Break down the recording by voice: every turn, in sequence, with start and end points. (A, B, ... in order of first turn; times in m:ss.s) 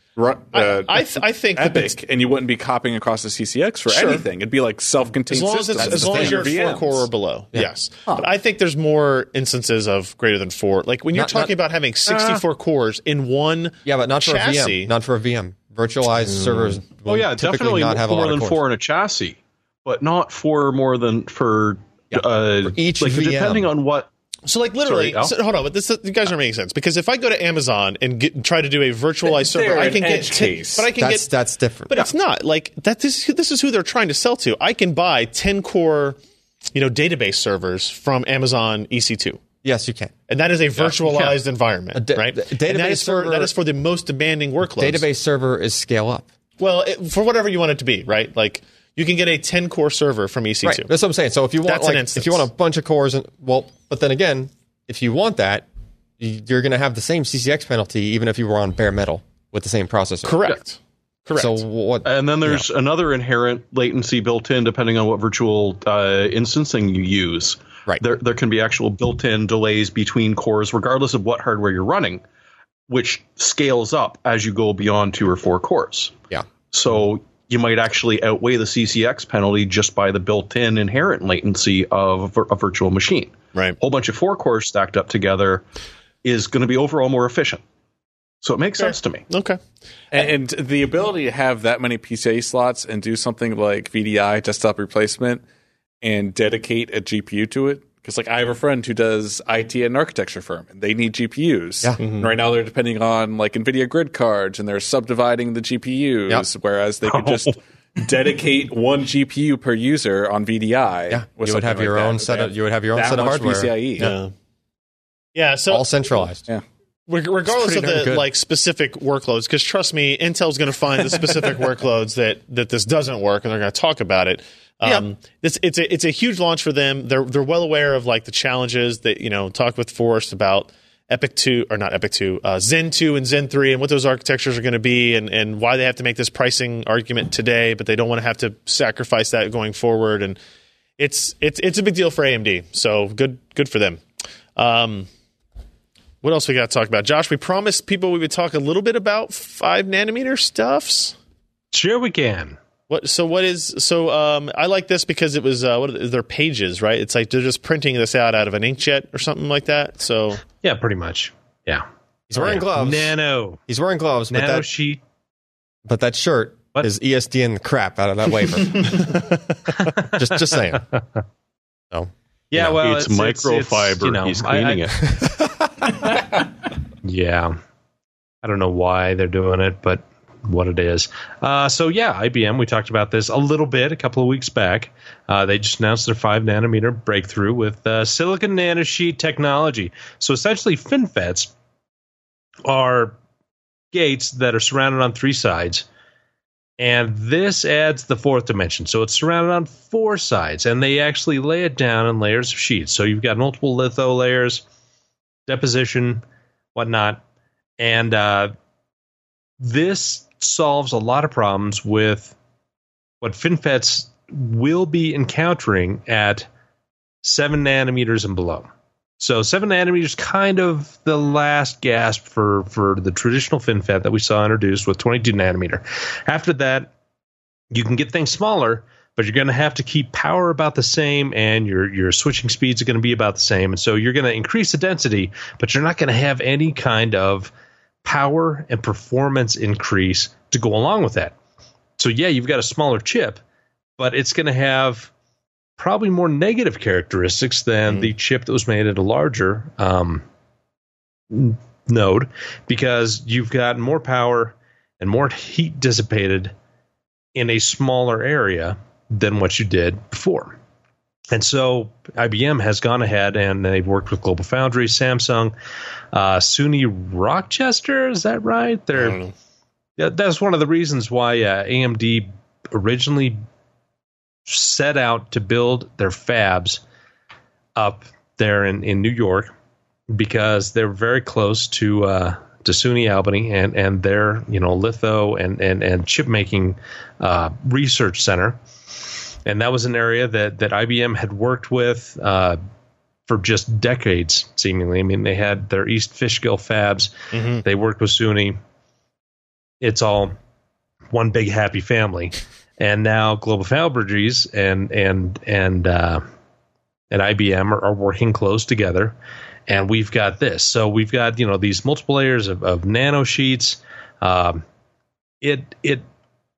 0:00.2-0:07.1 A
0:00.5-0:02.0 B
0:05.3-0:14.9 B
0:05.8-0:06.6 C
0:11.1-0:11.5 C
0:12.1-0:12.4 D
0:13.8-0:18.6 C
0:17.0-0:24.1 D
0:22.1-0:23.7 C
0:24.4-0:31.3 B
0:24.8-0:25.3 D
0:29.2-0:30.9 A
0:31.0-0:32.0 C
0:31.9-0:36.2 B
0:36.7-0:39.4 B
0:39.6-0:40.1 C
0:40.3-0:45.0 B
0:42.0-0:43.5 C
0:44.8-0:46.3 C
0:46.6-0:50.9 B
0:50.6-0:55.7 C
0:51.6-0:52.5 B
0:56.2-1:00.5 C
1:00.2-1:01.6 B
1:01.4-1:02.6 C
1:02.0-1:12.2 D
1:12.9-1:25.6 D
1:26.2-1:27.6 D
1:28.4-1:29.2 D
1:28.8-1:29.6 B
1:30.1-1:35.4 A
1:36.0-1:54.1 A
1:42.0-1:42.3 B
1:51.1-1:54.1 C
1:54.0-1:54.3 B
1:55.3-1:55.9 B
1:55.7-1:56.4 C
1:57.1-2:20.4 B
1:57.5-1:58.3 C
2:21.0-2:24.0 B
2:24.6-2:25.1 B
2:26.2-2:31.1 B
2:31.7-2:32.6 E
2:32.9-2:40.4 B
2:40.6-2:43.6 E
2:42.3-2:43.1 C
2:43.7-2:44.7 C
2:44.3-2:45.0 E
2:45.8-2:50.9 C
2:51.9-2:52.8 C
2:52.5-2:55.0 E
2:52.7-2:55.1 D
2:55.1-2:55.7 C
2:57.0-2:57.6 E
2:58.4-3:11.5 E
3:12.6-3:13.2 E
3:13.9-3:15.9 E
3:16.8-3:24.6 E
3:25.5-3:26.2 E
3:26.7-3:27.2 E
3:27.8-3:28.5 E
3:29.6-3:32.3 E
3:33.2-3:36.4 E
3:37.2-3:46.9 E
3:47.7-3:57.5 E
3:58.0-4:01.3 E
4:02.0-4:03.4 E
4:04.0-4:05.1 E
4:05.8-4:10.2 E
4:11.3-4:16.5 E
4:17.3-4:20.6 E
4:21.3-4:25.5 E
4:26.1-4:29.2 E
4:29.0-4:29.3 B
4:30.0-4:33.4 E
4:34.5-4:36.8 E
4:37.8-4:39.5 E
4:40.1-4:48.6 E
4:49.4-4:52.6 E
4:53.3-4:58.6 E
4:57.3-4:57.6 B
4:59.8-5:00.3 E
5:01.1-5:06.2 E
5:07.1-5:09.2 E
5:09.7-5:14.6 E
5:15.4-5:16.0 E